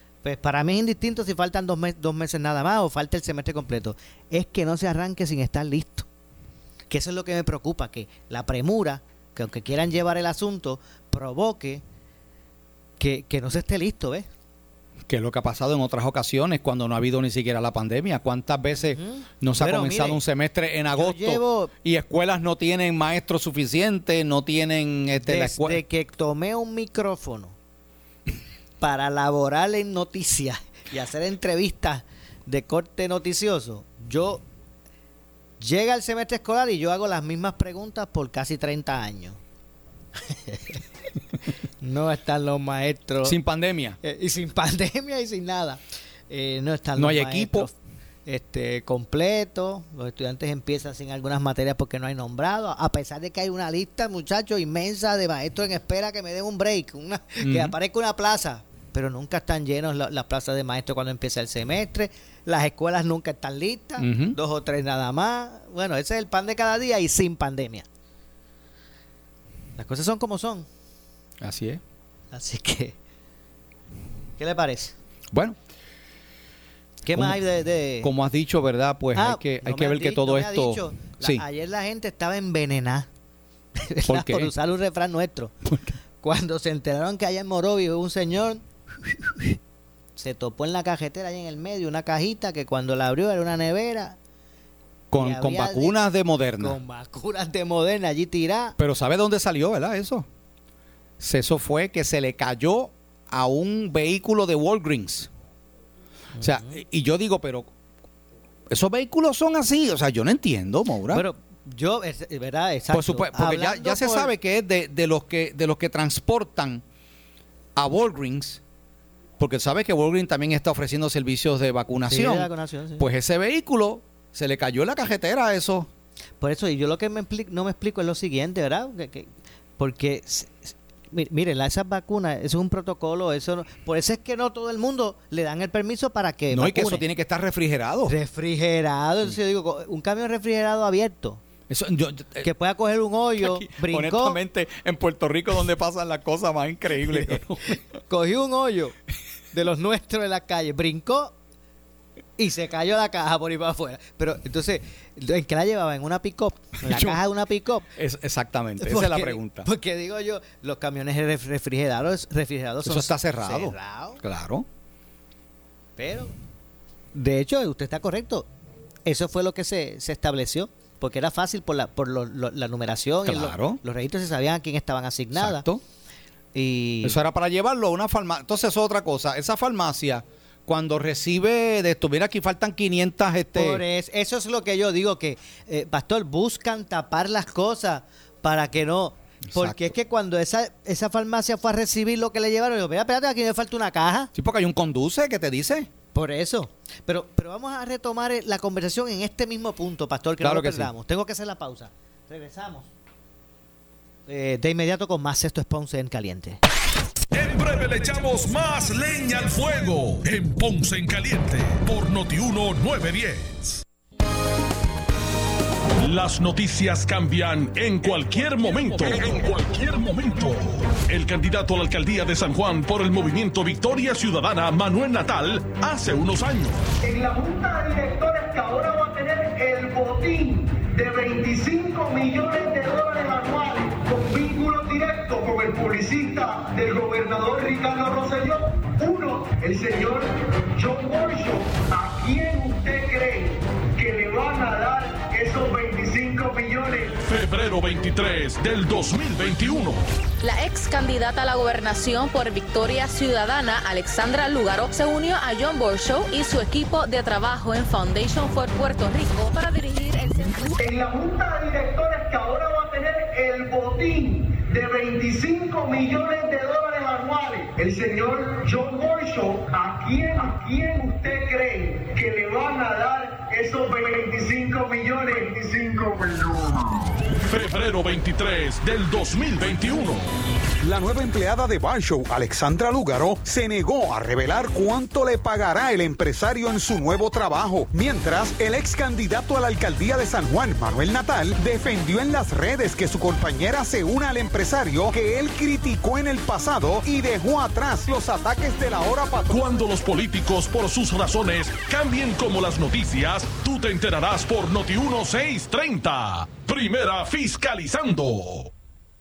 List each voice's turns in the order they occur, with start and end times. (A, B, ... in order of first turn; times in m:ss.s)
0:00.2-0:06.1 A
0:06.9-0:11.8 A
0:13.0-0:14.3 A
0:15.1-0:25.8 B
0:18.9-0:20.2 A
0:20.9-0:21.7 A
0:25.2-0:27.6 A
0:28.8-0:34.4 A
0:35.6-0:39.4 A
0:40.3-0:40.8 A
0:41.8-0:43.4 A
0:43.2-0:44.0 B
0:44.0-0:47.7 A
0:47.0-0:47.7 B
0:48.2-1:07.9 A
0:57.4-0:57.7 B
1:04.0-1:04.4 B
1:09.8-1:10.7 A
1:11.4-1:11.8 B
1:12.3-1:13.0 A
1:14.4-1:14.9 A
1:17.0-1:18.1 A
1:17.1-1:17.4 B
1:18.0-1:21.4 B
1:19.1-1:23.1 A
1:23.8-1:25.5 A
1:24.1-1:24.5 B
1:25.6-1:25.9 B
1:26.2-1:29.6 A
1:30.2-1:34.2 A
1:35.1-1:36.8 B
1:35.2-1:36.0 A
1:36.6-1:38.8 A
1:38.8-1:40.2 B
1:41.2-1:45.3 B
1:46.4-1:46.8 A
1:46.4-1:47.7 B
1:48.7-1:51.2 B
1:51.1-1:54.3 A
1:52.9-1:56.8 B
1:57.8-1:58.6 B
1:59.4-2:05.9 B
2:02.1-2:03.1 A
2:06.4-2:17.0 A
2:16.5-2:18.2 B
2:18.0-2:21.4 A
2:21.7-2:22.5 B
2:22.4-2:24.4 A
2:23.4-2:27.8 B
2:27.0-2:27.4 A
2:28.0-2:28.9 A
2:29.5-2:31.3 A
2:32.4-2:37.8 A
2:36.8-2:37.2 B
2:38.0-2:39.7 B
2:38.8-2:44.2 A
2:42.8-2:44.6 B
2:46.0-2:46.3 A
2:47.1-2:48.5 A
2:49.0-2:55.6 A
2:53.2-2:53.8 B
2:55.3-2:55.8 B
2:56.5-2:57.2 A
2:57.0-3:03.8 B
3:03.5-3:14.3 A
3:09.5-3:09.9 B
3:14.3-3:15.9 B
3:16.1-3:22.9 A
3:20.4-3:20.9 B
3:24.3-3:26.6 A
3:27.3-3:33.8 C
3:36.0-3:46.8 C
3:47.0-4:07.2 D
4:07.2-4:10.0 C
4:10.4-4:20.8 E
4:20.8-4:37.0 D
4:37.3-4:40.3 C
4:40.8-4:59.6 F
4:59.5-5:08.7 C